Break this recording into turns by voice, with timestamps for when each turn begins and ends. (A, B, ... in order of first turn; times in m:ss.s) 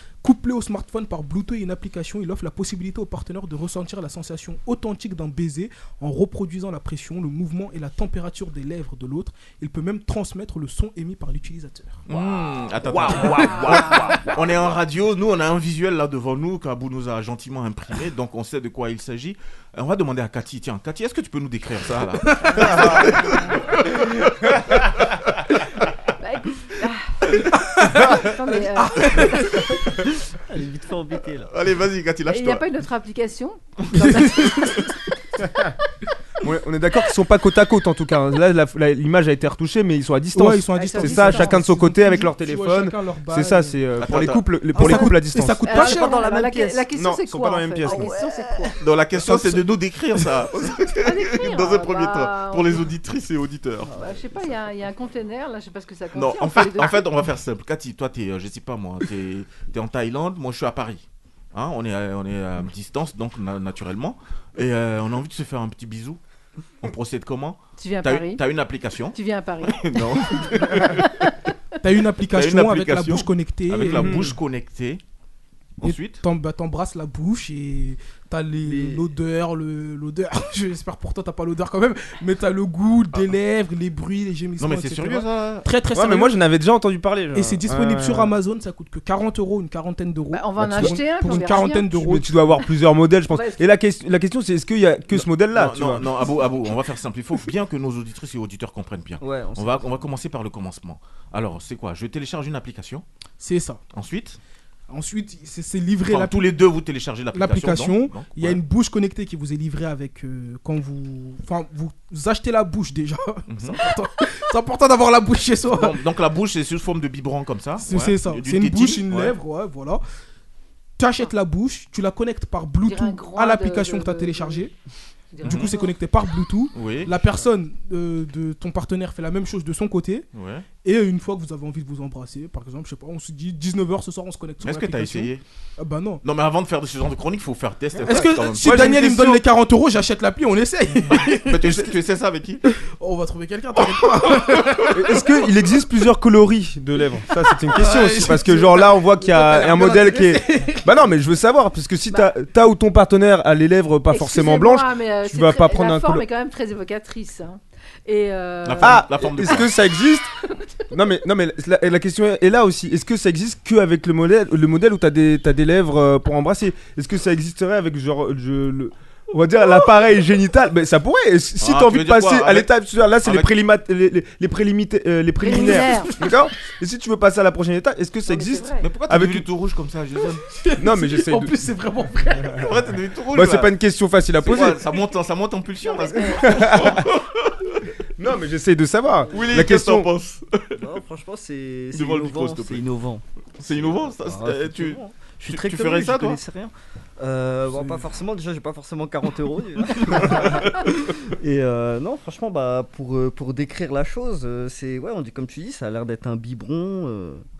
0:00.2-0:12.0 A
0:12.1-0:25.6 B
0:12.8-0:14.3 C
0:22.2-0:22.9 A
0:26.2-0:29.4 D
0:27.5-0:29.9 A
0:30.2-0:31.5 E
0:31.4-0:32.6 B
0:32.3-0:34.6 D
0:33.8-0:34.9 B
0:33.9-0:34.9 A
0:36.4-0:45.7 C
0:40.3-0:43.8 A
0:40.7-0:41.6 D
0:44.0-0:44.4 B
0:44.7-0:45.1 E
0:44.8-0:46.2 A
0:45.7-0:48.7 D
0:45.7-0:46.8 E
0:47.0-0:48.1 C
0:47.8-0:48.7 E
0:48.8-0:53.9 B
0:49.1-0:50.5 A
0:51.0-0:52.9 D
0:53.8-0:54.7 E
0:54.0-0:57.1 D
0:56.1-1:06.2 B
1:06.8-1:11.3 B
1:07.8-1:08.4 D
1:09.1-1:11.5 D
1:11.8-1:14.3 A
1:12.2-1:15.0 B
1:13.9-1:14.4 C
1:15.8-1:16.2 B
1:15.8-1:26.3 A
1:18.6-1:19.0 E
1:24.6-1:25.7 B
1:25.9-1:28.3 C
1:27.3-1:32.4 A
1:30.3-1:31.9 D
1:30.6-1:36.0 C
1:33.3-1:33.7 D
1:35.1-1:43.0 B
1:39.2-1:39.9 E
1:43.4-1:43.8 A
1:43.9-1:44.4 B
1:44.9-1:46.6 A
1:46.0-1:48.6 B
1:47.3-1:56.0 A
1:53.5-1:53.8 B
1:55.7-1:59.4 B
1:57.8-2:00.0 A
2:01.0-2:04.7 A
2:02.8-2:04.7 D
2:05.3-2:05.9 D
2:05.4-2:16.2 A
2:05.4-2:05.8 B
2:06.7-2:07.1 B
2:10.3-2:10.7 B
2:14.6-2:15.4 B
2:16.2-2:19.1 B
2:18.0-2:21.9 A
2:18.0-2:19.4 C
2:21.3-2:22.7 B
2:22.7-2:25.5 A
2:23.9-2:24.2 B
2:24.9-2:36.2 C
2:27.4-2:31.0 A
2:34.1-2:39.0 D
2:38.6-2:39.7 B
2:38.8-2:40.3 C
2:40.4-2:40.8 D
2:40.9-2:59.5 C
2:51.6-2:52.7 B
2:53.2-2:53.5 B
2:55.4-2:56.2 D
2:58.3-2:58.9 D
2:58.8-3:00.4 B
3:00.3-3:02.7 A
3:00.8-3:01.5 C
3:02.5-3:03.7 B
3:03.3-3:04.9 C
3:04.4-3:07.9 B
3:05.8-3:06.5 D
3:06.2-3:07.1 C
3:08.2-3:10.1 C
3:09.3-3:10.8 B
3:10.7-3:27.4 E
3:11.9-3:12.8 B
3:13.6-3:16.4 B
3:19.9-3:21.1 B